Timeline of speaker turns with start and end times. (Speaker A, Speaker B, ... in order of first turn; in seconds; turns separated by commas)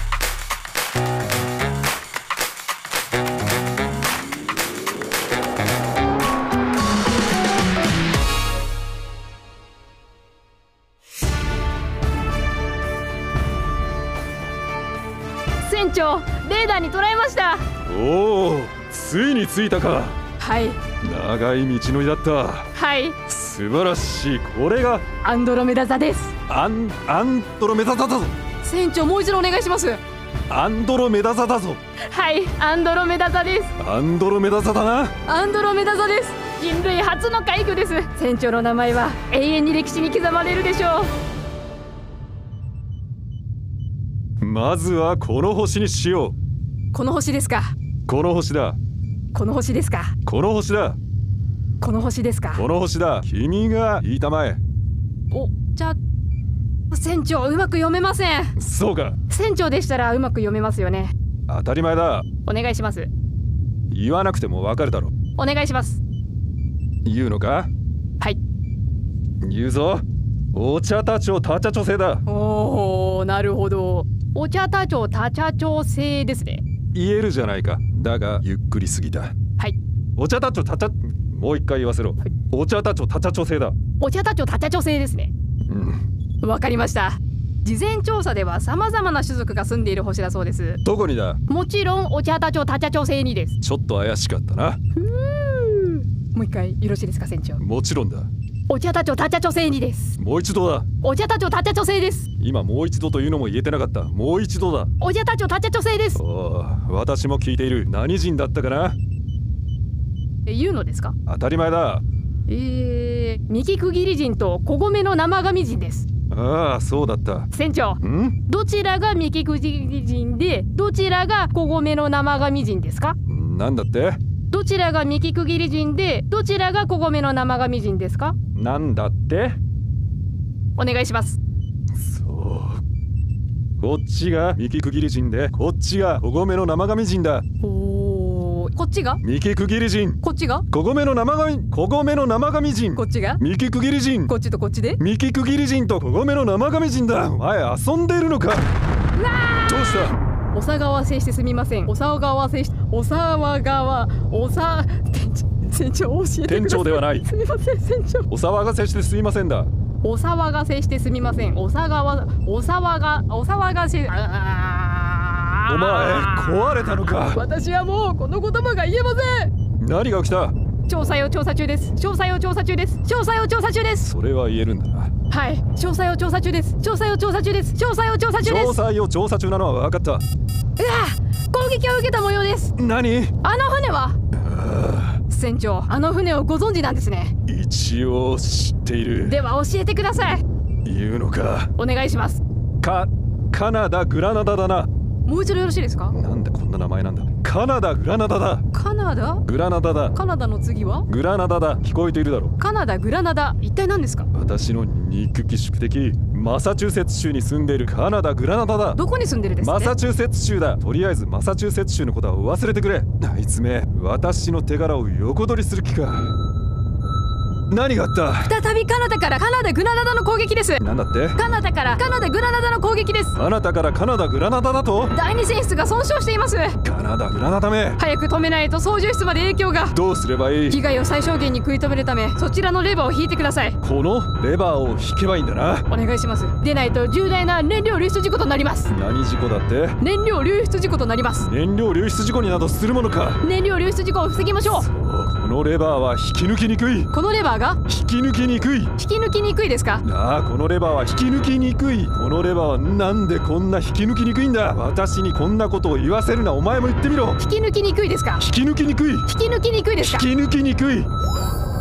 Speaker A: 15.6-17.7, Speaker B: 17.9-20.2, Speaker A: 20.4-20.8, Speaker B: 21.0-22.7, Speaker A: 22.7-23.2, Speaker B: 23.3-25.1, Speaker A: 25.2-26.4, Speaker B: 26.5-28.4, Speaker A: 28.6-30.0, Speaker B: 30.5-31.8, Speaker A: 32.1-33.7, Speaker B: 33.8-35.1, Speaker A: 35.2-41.1, Speaker B: 44.4-46.4, Speaker A: 46.9-47.7, Speaker B: 48.1-48.8, Speaker A: 49.3-50.1, Speaker B: 50.3-51.0, Speaker A: 51.8-52.6, Speaker B: 52.5-54.6, Speaker A: 55.3-56.0, Speaker A: 56.9-58.5, Speaker B: 58.6-59.2, Speaker A: 59.3-61.1, Speaker B: 61.5-62.3, Speaker A: 62.5-63.1, Speaker B: 63.9-65.1, Speaker A: 65.4-66.0, Speaker B: 67.0-67.7, Speaker B: 69.4-72.2, Speaker A: 72.3-76.6, Speaker B: 76.9-79.3, Speaker B: 80.2-83.8, Speaker A: 84.0-85.3, Speaker B: 85.7-86.0, Speaker A: 86.4-90.8, Speaker B: 90.8-91.4, Speaker A: 91.5-93.5, Speaker B: 93.6-94.8, Speaker A: 95.0-97.6, Speaker B: 97.6-98.3, Speaker A: 98.7-100.2, Speaker B: 100.2-100.9, Speaker A: 101.0-102.3, Speaker B: 102.4-104.9, Speaker A: 105.0-106.2, Speaker B: 106.2-109.0, Speaker A: 110.5-111.2, Speaker B: 111.3-112.0, Speaker A: 112.5-116.1, Speaker B: 116.3-117.5, Speaker A: 117.5-123.2, Speaker B: 118.0-118.4, Speaker B: 123.3-124.2, Speaker A: 124.5-128.4, Speaker B: 128.6-129.6, Speaker A: 130.8-131.4, Speaker B: 132.0-132.8, Speaker B: 133.8-137.4, Speaker A: 137.6-139.2, Speaker B: 139.2-140.2, Speaker A: 140.2-140.7, Speaker B: 140.7-144.3, Speaker A: 143.0-143.4, Speaker A: 144.3-145.0, Speaker B: 145.0-148.7, Speaker A: 149.2-149.8, Speaker B: 149.7-150.2, Speaker A: 150.5-158.3, Speaker B: 156.5-157.3, Speaker B: 158.3-159.7, Speaker A: 160.0-169.5, Speaker B: 165.7-167.4, Speaker B: 169.8-170.6, Speaker A: 170.9-174.1, Speaker B: 174.1-175.1, Speaker A: 175.3-178.8, Speaker B: 178.4-180.2, Speaker A: 180.8-182.7, Speaker B: 182.8-183.3, Speaker A: 183.4-184.2, Speaker B: 184.4-185.2, Speaker A: 185.3-187.3, Speaker B: 187.5-189.4, Speaker A: 189.2-190.4, Speaker B: 190.8-191.7, Speaker A: 191.8-192.4, Speaker B: 192.8-194.9, Speaker A: 195.3-196.2, Speaker B: 196.1-198.6, Speaker A: 198.7-199.4, Speaker B: 199.5-200.2, Speaker A: 200.1-201.1, Speaker B: 201.1-202.5, Speaker A: 202.6-204.3, Speaker B: 204.3-209.0, Speaker A: 208.9-209.9, Speaker B: 209.6-216.3, Speaker B: 217.7-218.5, Speaker A: 218.5-220.8, Speaker B: 220.8-221.4, Speaker A: 221.4-223.4, Speaker B: 223.3-225.1, Speaker A: 225.1-226.8, Speaker B: 226.8-228.0, Speaker A: 228.0-230.0, Speaker B: 229.9-230.8, Speaker A: 230.7-233.8, Speaker B: 233.8-235.9, Speaker A: 235.9-238.9, Speaker B: 238.9-240.0, Speaker A: 240.0-241.5, Speaker B: 241.4-243.4, Speaker A: 243.4-244.9, Speaker B: 244.7-247.1, Speaker A: 247.1-247.8, Speaker B: 247.9-248.9, Speaker A: 249.0-250.0, Speaker B: 250.0-257.4, Speaker A: 257.4-258.4, Speaker B: 258.4-259.3, Speaker A: 259.3-260.3, Speaker B: 260.0-261.1